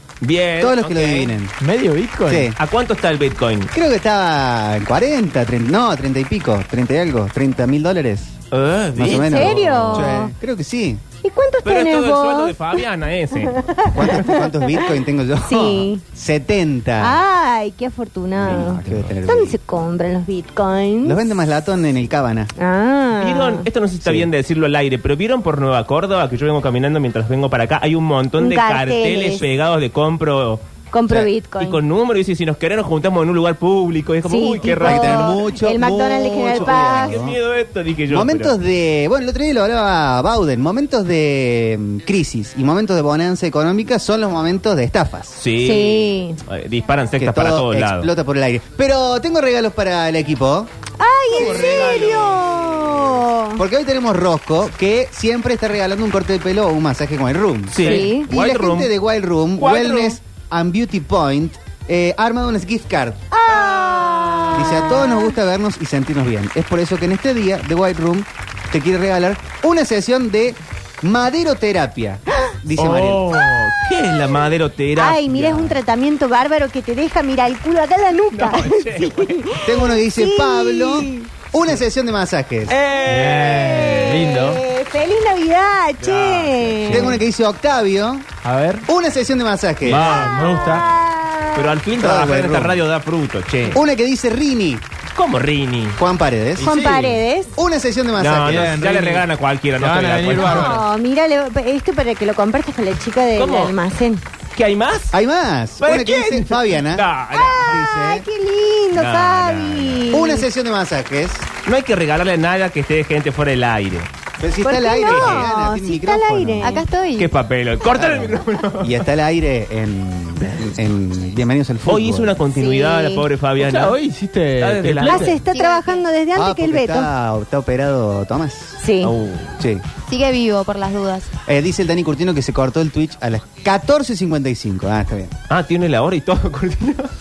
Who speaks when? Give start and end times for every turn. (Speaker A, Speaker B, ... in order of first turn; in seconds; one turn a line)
Speaker A: 0.2-1.3
Speaker B: 0.6-1.5
Speaker C: 1.6-2.5
Speaker B: 2.2-2.6
Speaker A: 2.6-3.7
Speaker B: 3.7-8.4
Speaker A: 8.5-10.2
Speaker B: 8.9-11.0
Speaker D: 9.1-10.3
Speaker D: 11.2-12.8
Speaker A: 11.6-13.7
Speaker D: 13.4-14.8
Speaker B: 13.9-17.2
Speaker D: 15.4-16.0
Speaker D: 17.0-21.2
Speaker B: 18.4-19.6
Speaker B: 21.0-22.5
Speaker D: 22.6-23.6
Speaker A: 23.1-35.4
Speaker B: 24.0-24.3
Speaker D: 28.4-29.4
Speaker D: 30.9-31.8
Speaker D: 34.3-37.2
Speaker B: 34.8-37.4
Speaker A: 36.5-38.5
Speaker B: 38.1-45.5
Speaker A: 45.4-48.1
Speaker D: 45.6-46.4
Speaker B: 47.2-50.7
Speaker D: 51.0-53.6
Speaker A: 51.3-53.1
Speaker B: 51.3-52.2
Speaker B: 53.5-63.3
Speaker A: 57.7-58.9
Speaker D: 57.8-58.3
Speaker A: 59.6-60.2
Speaker D: 63.3-65.3
Speaker A: 63.5-65.0
Speaker B: 64.5-73.5
Speaker A: 72.8-75.7
Speaker D: 75.0-81.3
Speaker A: 78.3-79.4
Speaker B: 79.6-82.8
Speaker A: 82.7-84.1
Speaker C: 83.0-84.6
Speaker D: 83.3-87.2
Speaker A: 86.0-87.1
Speaker B: 86.8-88.2
Speaker C: 88.4-88.8
Speaker B: 88.8-90.3
Speaker A: 89.8-90.9
Speaker C: 90.0-90.8
Speaker D: 90.0-91.7
Speaker A: 91.5-93.8
Speaker B: 92.0-92.8
Speaker B: 93.7-94.8
Speaker A: 95.2-96.0
Speaker B: 96.0-96.7
Speaker C: 96.6-97.2
Speaker D: 96.6-97.5
Speaker B: 97.5-98.8
Speaker A: 98.2-100.8
Speaker C: 98.4-99.2
Speaker C: 99.8-100.8
Speaker D: 100.3-104.2
Speaker A: 103.3-103.8
Speaker A: 104.5-105.2
Speaker B: 105.1-108.3
Speaker A: 105.8-107.8
Speaker D: 107.3-110.4
Speaker A: 108.9-110.1
Speaker B: 110.1-111.5
Speaker A: 111.6-114.1
Speaker B: 114.4-116.7
Speaker D: 114.6-117.2
Speaker A: 115.0-115.5
Speaker E: 116.6-117.3
Speaker A: 117.2-119.0
Speaker B: 117.9-122.4
Speaker A: 121.8-124.0
Speaker D: 122.5-123.2
Speaker C: 123.6-125.3
Speaker A: 124.6-125.3
Speaker D: 125.0-127.1
Speaker E: 125.5-126.0
Speaker B: 126.3-128.8
Speaker D: 128.8-129.1
Speaker A: 129.0-129.5
Speaker B: 129.6-129.8
Speaker E: 130.1-131.3
Speaker B: 131.4-135.3
Speaker A: 135.5-137.1